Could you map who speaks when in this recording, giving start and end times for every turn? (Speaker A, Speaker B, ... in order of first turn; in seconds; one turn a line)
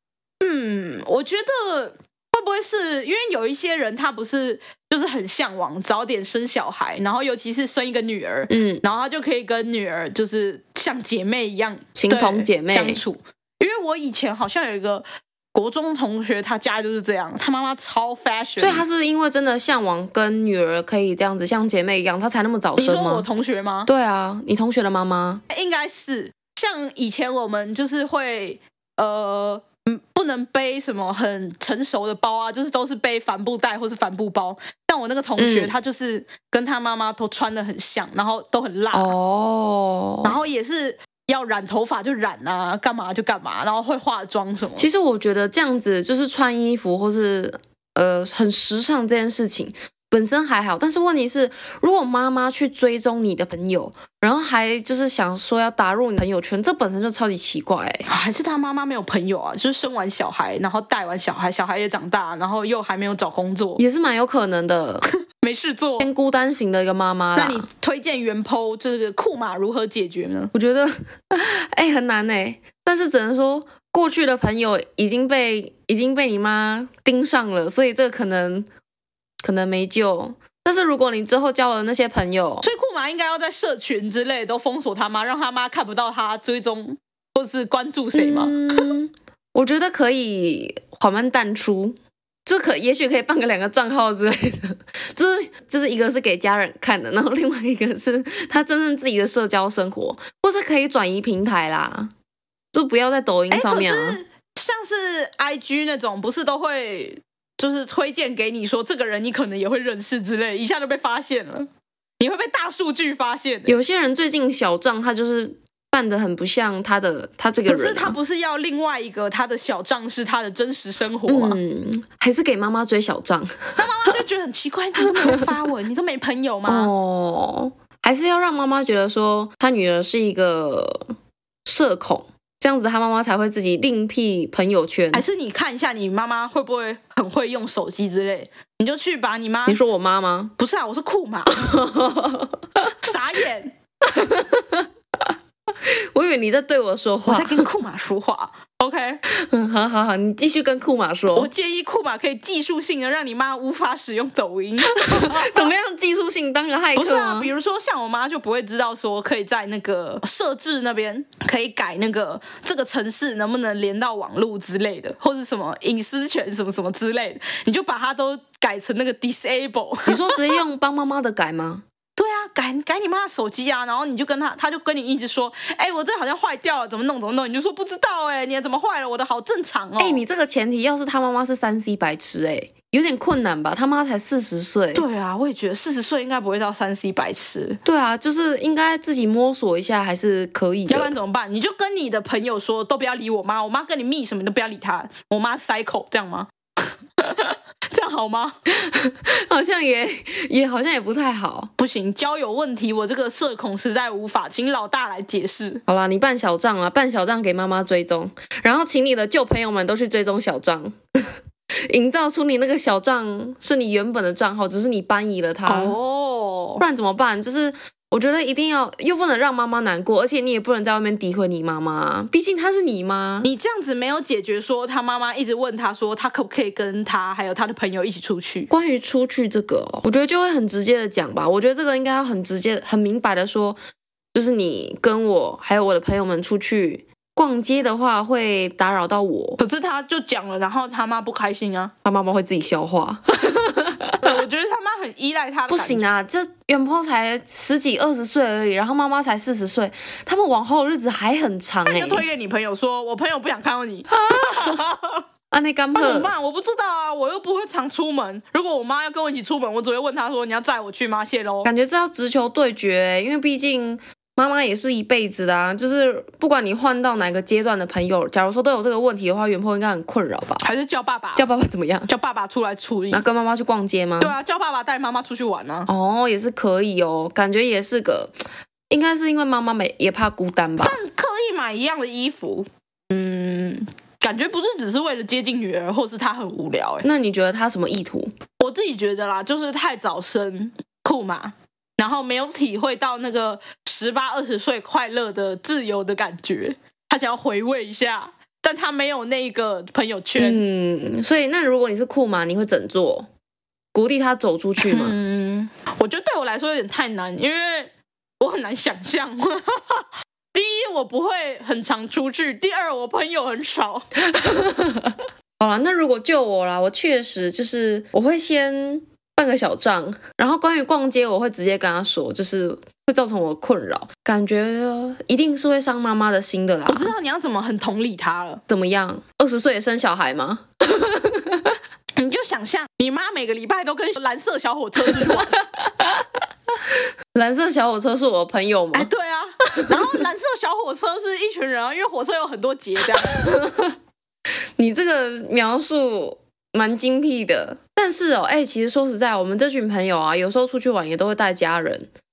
Speaker A: 0.4-18.8
Speaker B: 8.5-8.8
Speaker B: 11.9-13.0
Speaker B: 18.6-23.3
Speaker A: 22.8-23.9
Speaker B: 23.9-25.4
Speaker A: 25.5-39.1
Speaker B: 35.4-35.7
Speaker B: 38.9-40.4
Speaker A: 40.2-44.9
Speaker B: 44.8-58.0
Speaker A: 58.0-63.8
Speaker B: 63.8-65.0
Speaker A: 65.4-66.1
Speaker B: 66.0-67.7
Speaker A: 67.3-70.5
Speaker B: 70.5-78.7
Speaker B: 79.4-82.7
Speaker A: 82.6-88.9
Speaker B: 88.1-102.1
Speaker B: 102.7-104.2
Speaker A: 103.5-111.7
Speaker A: 112.2-113.8
Speaker B: 113.7-118.2
Speaker A: 117.7-121.6
Speaker B: 121.3-124.1
Speaker A: 123.8-126.9
Speaker B: 125.2-125.4
Speaker B: 126.7-131.1
Speaker B: 131.7-135.2
Speaker A: 135.1-139.8
Speaker B: 139.7-140.5
Speaker A: 140.6-141.8
Speaker B: 141.5-142.9
Speaker A: 143.0-143.8
Speaker B: 144.0-147.7
Speaker A: 147.3-149.2
Speaker B: 149.3-151.5
Speaker A: 151.3-155.7
Speaker B: 155.0-157.5
Speaker A: 156.9-170.6
Speaker B: 170.1-171.8
Speaker A: 172.2-180.2
Speaker B: 180.0-185.0
Speaker A: 184.9-187.8
Speaker B: 187.8-191.1
Speaker A: 190.9-196.5
Speaker A: 197.2-198.6
Speaker B: 198.8-201.7
Speaker A: 201.8-205.8
Speaker B: 205.9-215.9
Speaker A: 215.7-216.8
Speaker B: 216.8-223.5
Speaker A: 223.4-228.7
Speaker B: 228.7-233.8
Speaker B: 234.3-239.6
Speaker A: 239.6-241.9
Speaker B: 242.0-244.3
Speaker A: 244.2-246.0
Speaker B: 245.7-252.2
Speaker A: 251.9-255.2
Speaker B: 254.1-254.8
Speaker B: 255.5-256.3
Speaker A: 255.9-261.7
Speaker B: 261.6-270.6
Speaker A: 270.6-271.5
Speaker B: 271.3-272.1
Speaker A: 272.1-273.2
Speaker B: 273.1-274.3
Speaker A: 274.2-275.9
Speaker B: 275.9-278.4
Speaker B: 278.9-281.0
Speaker A: 280.8-287.1
Speaker B: 287.0-288.3
Speaker A: 288.6-300.6
Speaker B: 300.4-303.3
Speaker B: 303.9-305.1
Speaker A: 304.8-314.1
Speaker B: 314.3-327.1
Speaker A: 326.9-328.6
Speaker B: 328.7-331.8
Speaker A: 332.1-335.6
Speaker B: 335.1-339.1
Speaker A: 338.9-343.5
Speaker B: 339.7-340.2
Speaker B: 343.2-343.9
Speaker B: 344.8-352.1